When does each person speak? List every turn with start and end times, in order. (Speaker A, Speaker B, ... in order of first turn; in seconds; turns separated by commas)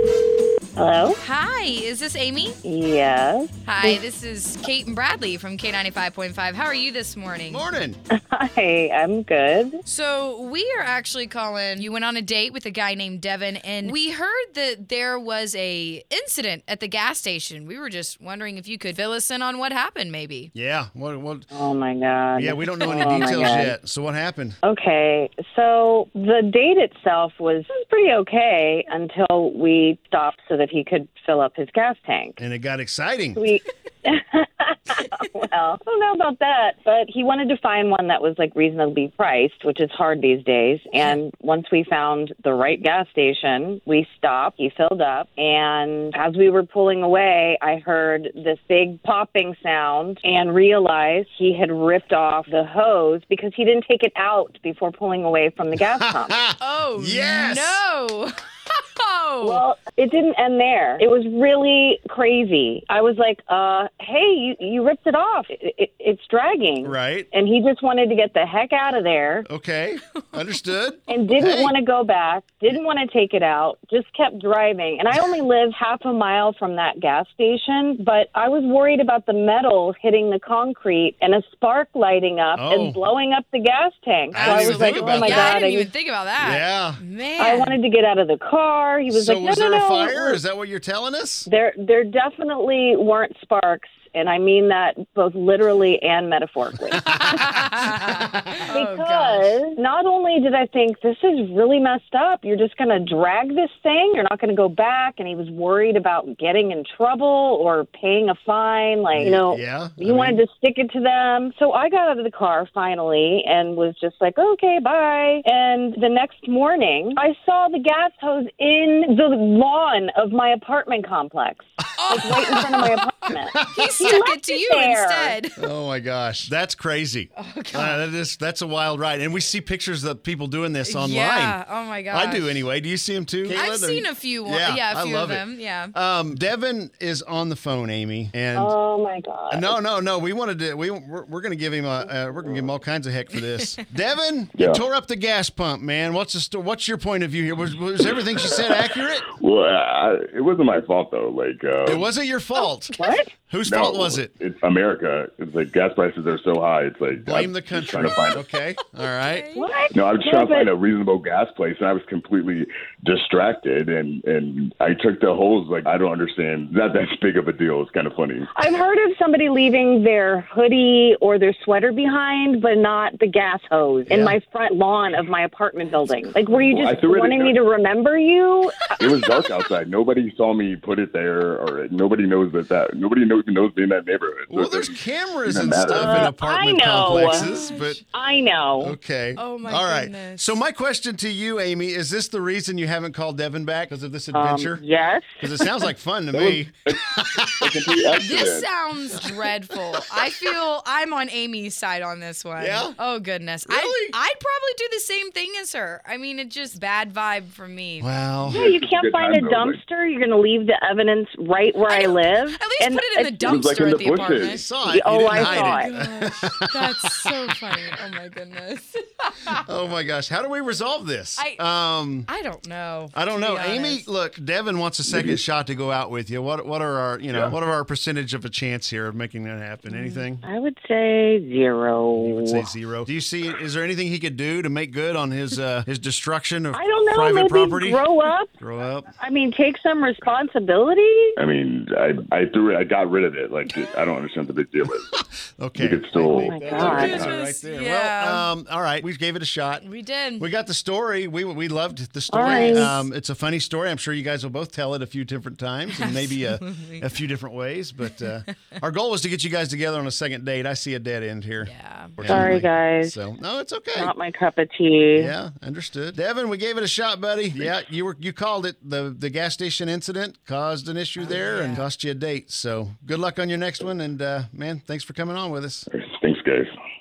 Speaker A: 0.8-1.2, Speaker B: 1.2-2.6, Speaker A: 2.6-4.0, Speaker B: 3.6-7.7, Speaker C: 7.5-8.0, Speaker A: 8.1-9.8, Speaker B: 9.8-20.5, Speaker C: 20.5-21.5, Speaker A: 21.5-23.7, Speaker C: 22.3-24.6, Speaker B: 22.8-23.2, Speaker A: 24.6-32.4, Speaker C: 32.4-33.4, Speaker A: 33.3-56.4, Speaker C: 56.0-57.8, Speaker B: 56.6-59.6, Speaker A: 59.4-69.5, Speaker C: 66.8-67.3, Speaker C: 69.5-71.7, Speaker A: 71.1-85.9, Speaker C: 82.5-83.0, Speaker C: 84.3-85.6, Speaker B: 84.3-87.8, Speaker C: 86.4-87.0, Speaker A: 87.4-90.4, Speaker C: 89.1-91.5, Speaker A: 91.5-97.1, Speaker B: 97.0-99.6, Speaker A: 98.7-125.3, Speaker C: 109.1-110.4, Speaker B: 122.0-122.7, Speaker B: 123.5-125.6, Speaker C: 123.6-123.9, Speaker C: 125.6-131.6, Speaker B: 127.3-128.0, Speaker B: 130.9-132.6, Speaker C: 132.1-138.7, Speaker B: 133.5-135.9, Speaker A: 138.5-139.8, Speaker C: 139.5-149.3, Speaker D: 144.6-144.8, Speaker D: 148.4-152.1, Speaker C: 151.8-152.9, Speaker A: 152.9-153.3, Speaker C: 153.5-154.3, Speaker D: 153.7-158.4, Speaker C: 157.2-159.5, Speaker B: 159.2-159.7, Speaker A: 159.5-160.7, Speaker D: 159.9-168.5, Speaker A: 168.5-179.3, Speaker C: 174.1-174.4, Speaker D: 176.7-177.6, Speaker D: 179.0-186.3, Speaker C: 184.5-188.0, Speaker A: 185.9-187.5, Speaker B: 187.0-188.0, Speaker A: 188.1-188.9, Speaker C: 188.8-194.8, Speaker B: 189.4-190.6, Speaker A: 194.3-195.4, Speaker C: 195.4-198.0, Speaker D: 196.3-198.7, Speaker B: 198.2-208.1, Speaker C: 202.6-203.0, Speaker C: 203.7-204.2, Speaker C: 208.0-208.6, Speaker D: 208.4-209.8, Speaker A: 208.5-213.6, Speaker B: 211.8-214.6, Speaker D: 213.4-214.6, Speaker C: 214.4-217.3, Speaker A: 214.8-215.9, Speaker B: 215.3-219.6, Speaker C: 219.6-222.3, Speaker B: 222.2-224.1, Speaker C: 223.1-230.4, Speaker D: 225.1-225.4, Speaker B: 229.9-230.2, Speaker A: 230.4-232.7, Speaker C: 232.1-238.0, Speaker A: 236.7-238.5, Speaker C: 238.6-239.1, Speaker A: 239.2-241.3, Speaker D: 241.4-245.1, Speaker C: 245.6-249.8, Speaker D: 245.8-247.3, Speaker A: 246.2-247.2, Speaker B: 247.0-248.5, Speaker B: 249.8-250.5, Speaker C: 250.4-264.1, Speaker A: 252.3-253.0, Speaker B: 252.5-253.0, Speaker B: 255.9-257.1, Speaker B: 261.6-262.5, Speaker A: 262.2-263.1, Speaker A: 263.9-265.3, Speaker C: 265.1-275.9, Speaker B: 271.2-271.9, Speaker D: 275.9-276.7